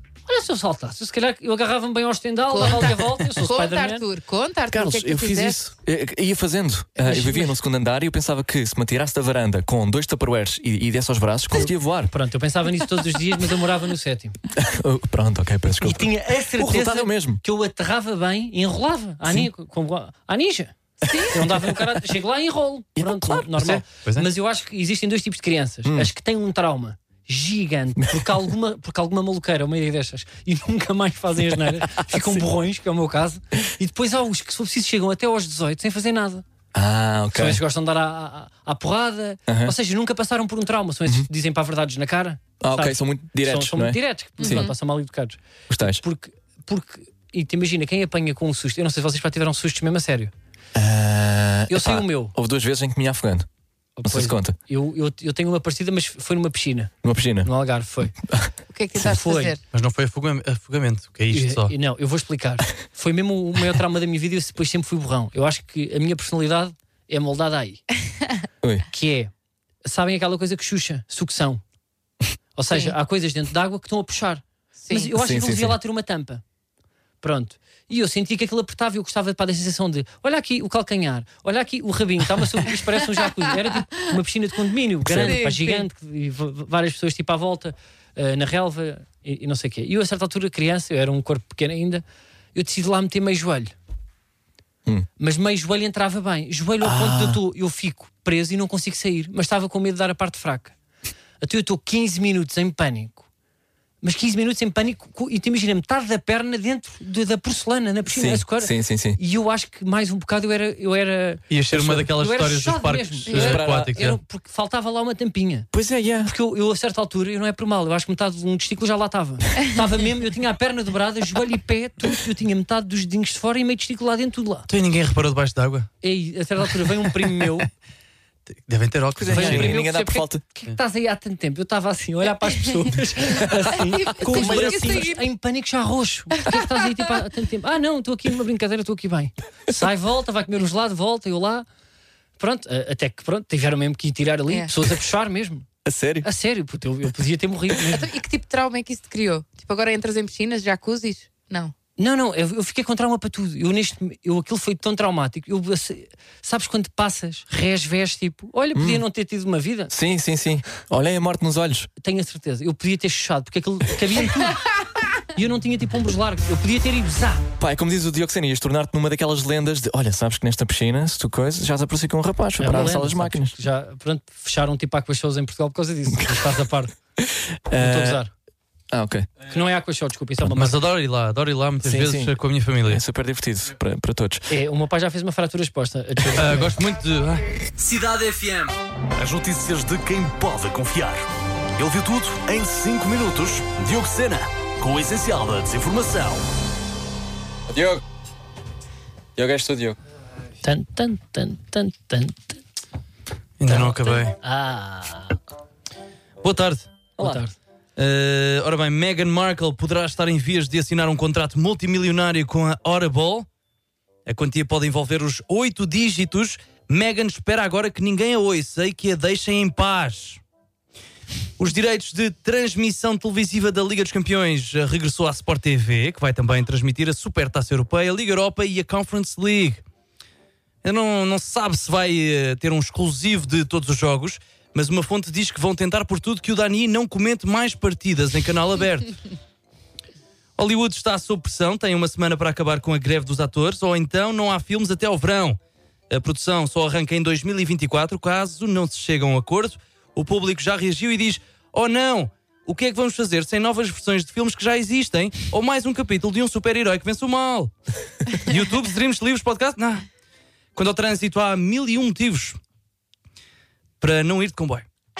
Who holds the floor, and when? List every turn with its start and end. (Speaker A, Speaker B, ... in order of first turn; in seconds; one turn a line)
Speaker A: 0.3-4.0
Speaker B: 2.5-5.6
Speaker C: 4.7-12.1
Speaker A: 7.0-7.5
Speaker A: 12.1-14.4
Speaker C: 14.5-17.4
Speaker A: 15.8-36.4
Speaker B: 21.0-21.4
Speaker C: 22.9-23.8
Speaker D: 23.6-24.3
Speaker C: 25.8-26.1
Speaker C: 28.0-28.3
Speaker C: 32.0-32.4
Speaker C: 36.7-37.6
Speaker A: 37.3-50.3
Speaker C: 39.5-39.7
Speaker C: 42.6-44.7
Speaker B: 44.4-44.7
Speaker C: 45.7-46.0
Speaker C: 50.7-53.5
Speaker A: 51.7-52.3
Speaker A: 54.0-58.1
Speaker C: 54.0-54.5
Speaker C: 57.0-57.5
Speaker C: 58.3-59.1
Speaker B: 58.7-59.6
Speaker A: 59.0-59.5
Speaker D: 59.7-61.7
Speaker A: 61.3-67.8
Speaker C: 68.6-68.9
Speaker A: 68.9-69.3
Speaker A: 69.8-71.6
Speaker A: 72.6-76.4
Speaker B: 72.7-73.0
Speaker B: 74.8-75.1
Speaker C: 75.1-75.8
Speaker A: 77.2-92.0
Speaker C: 85.0-85.5
Speaker B: 85.1-85.8
Speaker A: 92.5-93.7
Speaker A: 95.2-100.7
Speaker C: 96.8-97.4
Speaker A: 101.4-103.2
Speaker A: 104.0-115.7
Speaker C: 108.1-109.2
Speaker D: 111.5-114.2
Speaker B: 113.3-113.6
Speaker C: 113.3-114.0
Speaker C: 115.7-116.3
Speaker A: 116.2-124.7
Speaker D: 124.7-125.9
Speaker A: 126.0-127.7
Speaker D: 128.7-129.8
Speaker C: 129.2-130.4
Speaker A: 129.3-141.7
Speaker B: 133.8-135.2
Speaker C: 134.2-135.0
Speaker B: 136.4-136.7
Speaker A: 142.4-145.7
Speaker C: 145.8-146.3
Speaker A: 146.2-148.1
Speaker B: 147.9-151.7
Speaker A: 152.0-159.9
Speaker C: 158.7-159.0
Speaker C: 159.9-161.9
Speaker A: 162.0-164.7
Speaker A: 165.3-167.4
Speaker C: 167.6-173.6
Speaker A: 172.6-176.9
Speaker C: 176.1-176.6
Speaker C: 177.2-178.2
Speaker A: 177.8-178.3
Speaker C: 178.9-179.3
Speaker A: 179.5-180.8
Speaker D: 180.5-183.0
Speaker C: 181.8-184.5
Speaker A: 184.5-186.7
Speaker D: 186.3-187.4
Speaker E: 187.8-191.2
Speaker E: 191.8-196.4
Speaker C: 197.7-198.0
Speaker C: 199.3-200.0
Speaker A: 200.6-202.6
Speaker D: 203.6-204.3
Speaker A: 203.7-205.4
Speaker D: 206.4-206.9
Speaker C: 207.2-207.4
Speaker A: 207.2-207.5
Speaker D: 208.0-213.5
Speaker D: 214.2-220.4
Speaker D: 221.6-229.8
Speaker D: 230.8-239.2
Speaker D: 240.6-245.6
Speaker D: 246.1-257.7
Speaker D: 258.3-260.1
Speaker D: 260.7-262.6
Speaker D: 264.0-264.8